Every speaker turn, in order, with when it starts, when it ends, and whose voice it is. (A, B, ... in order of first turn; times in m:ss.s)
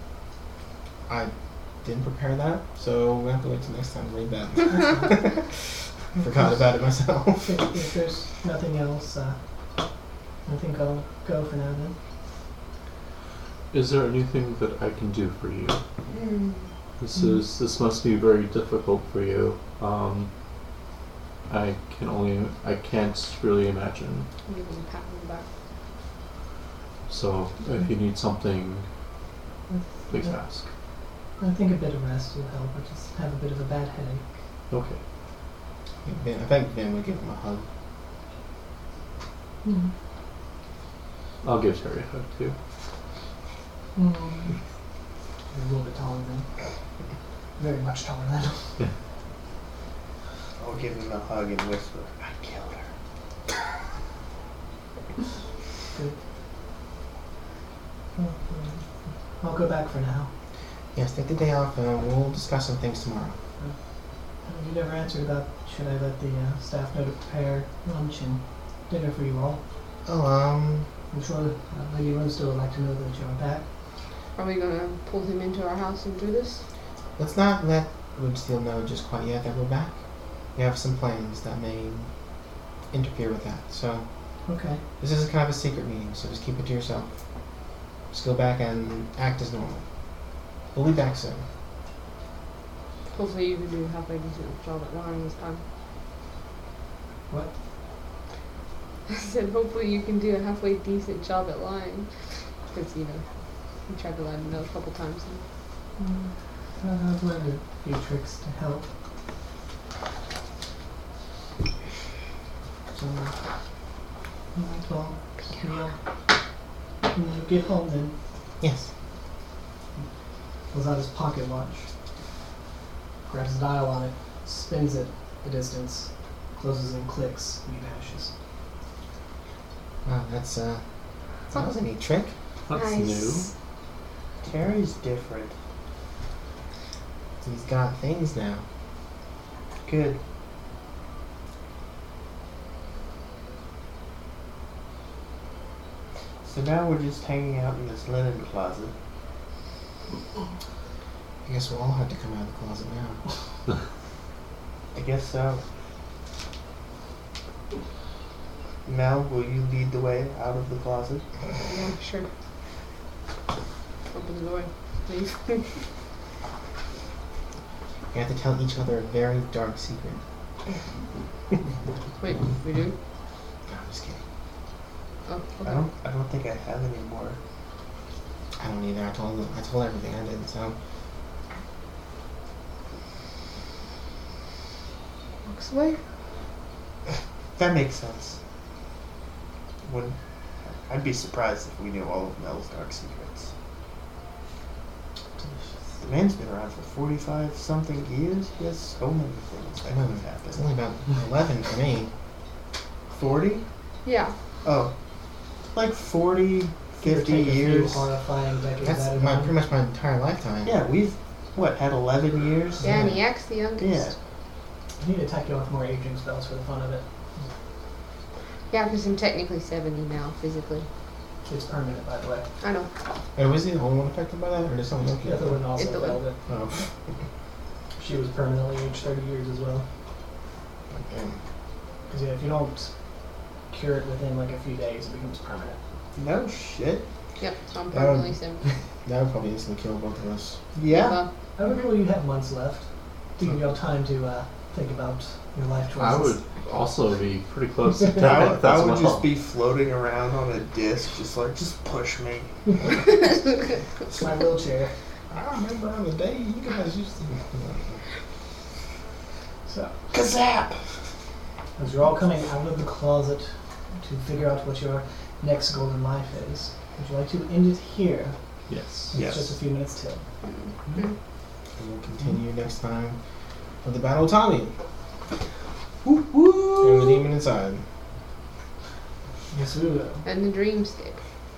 0:01.1-0:07.8 A
0:04.7-0:05.1 B
0:06.2-0:06.6 B
0:07.4-0:09.9 B
0:10.5-0:12.0 B
0:13.7-0:15.8 C
0:16.1-0:16.7 D
0:17.0-0:20.3 C
0:21.5-0:24.3 C
0:24.5-0:25.5 D
0:27.1-0:28.9 C
0:29.7-0:30.4 B
0:30.1-0:30.7 C
0:31.4-0:34.2 B
0:34.7-0:35.0 C
0:36.0-0:37.7 A
0:39.6-0:39.9 B
0:41.4-0:42.6 C
0:44.0-0:44.6 B
0:45.5-0:46.5 B
0:47.6-0:48.8 B
0:50.6-0:52.9 E
0:58.2-1:00.3 B
1:01.0-1:03.4 A
1:04.3-1:09.6 B
1:10.1-1:10.9 A
1:11.1-1:13.7 B
1:14.4-1:16.7 D
1:17.2-1:22.1 A
1:22.9-1:24.1 A
1:24.5-1:24.8 B
1:25.0-1:31.5 A
1:33.1-1:35.6 D
1:37.3-1:37.5 B
1:39.1-1:45.4 D
1:46.0-1:48.9 B
1:52.9-1:53.4 B
1:54.5-1:56.0 B
1:57.1-1:58.2 B
1:58.6-1:58.9 A
2:00.7-2:01.9 B
2:03.3-2:08.3 B
2:10.0-2:10.8 A
2:11.5-2:12.4 A
2:12.7-2:13.5 C
2:12.7-2:13.5 D
2:14.4-2:15.6 E
2:17.4-2:18.6 A
2:19.9-2:20.2 E
2:26.4-2:28.9 E
2:31.5-2:33.2 A
2:34.9-2:35.6 E
2:38.9-2:41.2 E
2:41.6-2:42.3 D
2:44.1-2:45.8 D
2:48.1-2:50.2 A
2:52.2-2:53.0 D
2:53.7-2:54.2 A
2:55.3-2:55.9 D
2:55.6-2:57.4 E
2:58.6-3:00.8 A
3:05.4-3:06.0 D
3:07.6-3:08.4 E
3:09.8-3:13.5 E
3:15.4-3:15.7 B
3:16.0-3:20.6 E
3:19.9-3:22.1 A
3:23.1-3:23.7 E
3:24.1-3:24.4 D
3:24.6-3:24.9 E
3:25.7-3:28.1 E
3:27.0-3:29.5 B
3:28.8-3:30.8 A
3:30.7-3:33.2 E
3:32.8-3:33.2 A
3:32.8-3:34.1 D
3:33.8-3:34.2 E
3:35.0-3:37.1 B
3:38.7-3:40.9 D
3:41.5-3:42.5 B
3:42.6-3:42.9 D
3:43.4-3:45.7 A
3:45.2-3:46.4 B
3:45.8-3:46.2 D
3:46.5-3:46.9 A
3:48.0-3:49.9 B
3:50.9-3:51.4 A
3:52.1-3:53.0 B
3:53.6-3:55.8 B
3:56.2-3:57.1 E
3:57.4-3:58.6 D
3:57.9-4:00.6 A
4:00.8-4:01.2 E
4:00.8-4:01.3 D
4:01.6-4:06.4 B
4:06.0-4:09.3 C
4:08.2-4:12.9 E
4:14.1-4:15.0 B
4:15.3-4:18.0 A
4:19.7-4:20.0 B
4:20.1-4:20.9 E
4:21.8-4:30.3 B
4:28.7-4:29.1 C
4:29.1-4:29.6 E
4:30.4-4:31.2 D
4:31.8-4:33.2 A
4:33.8-4:34.7 A
4:36.1-4:37.1 E
4:36.8-4:37.8 A
4:39.5-4:40.2 B
4:40.2-4:41.2 D